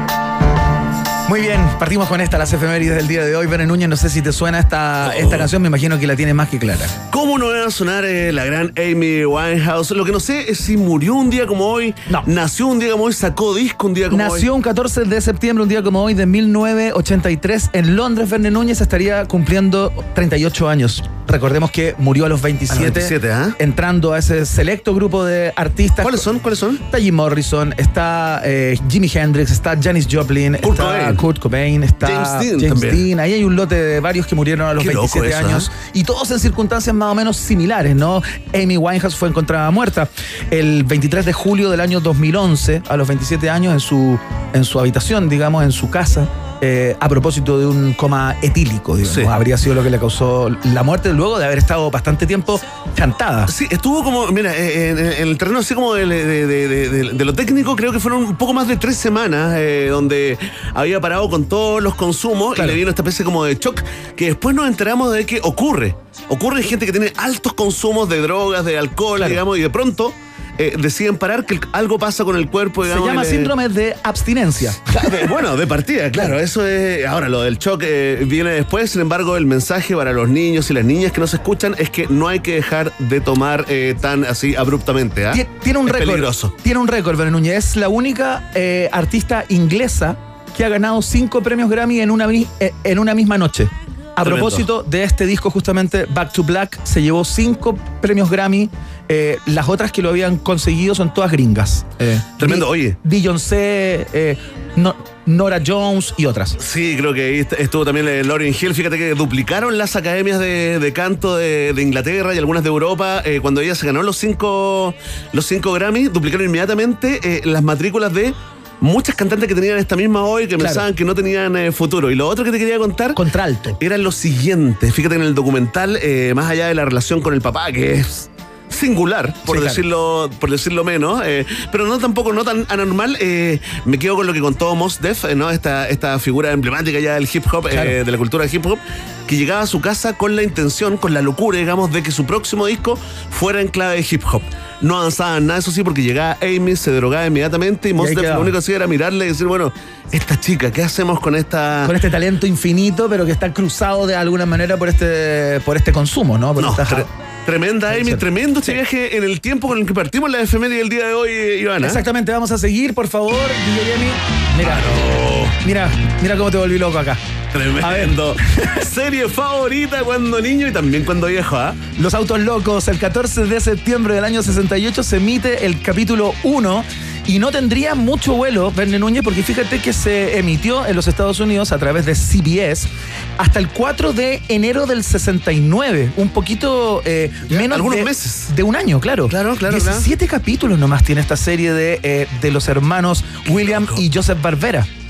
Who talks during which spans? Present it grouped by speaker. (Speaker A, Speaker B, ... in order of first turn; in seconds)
Speaker A: 1.3-6.9, 14.1-26.2, 26.9-53.5, 72.9-75.1, 85.3-106.5, 120.6-120.8, 123.1-123.8, 129.5-129.8, 148.0-148.5, 151.8-157.1, 157.9-158.8, 161.8-165.1, 165.6-167.2, 167.8-168.1, 172.0-194.9
Speaker B: 5.0-5.5, 7.1-14.4, 22.7-23.6, 26.0-26.8, 30.6-31.2, 32.0-33.0, 34.8-35.7, 49.0-49.3, 53.5-73.5, 74.9-86.5, 94.2-94.6, 102.4-103.0, 106.6-123.2, 123.8-151.9, 156.6-162.0, 164.6-165.5, 167.5-171.8, 187.5-188.5, 189.3-190.0, 193.5-194.0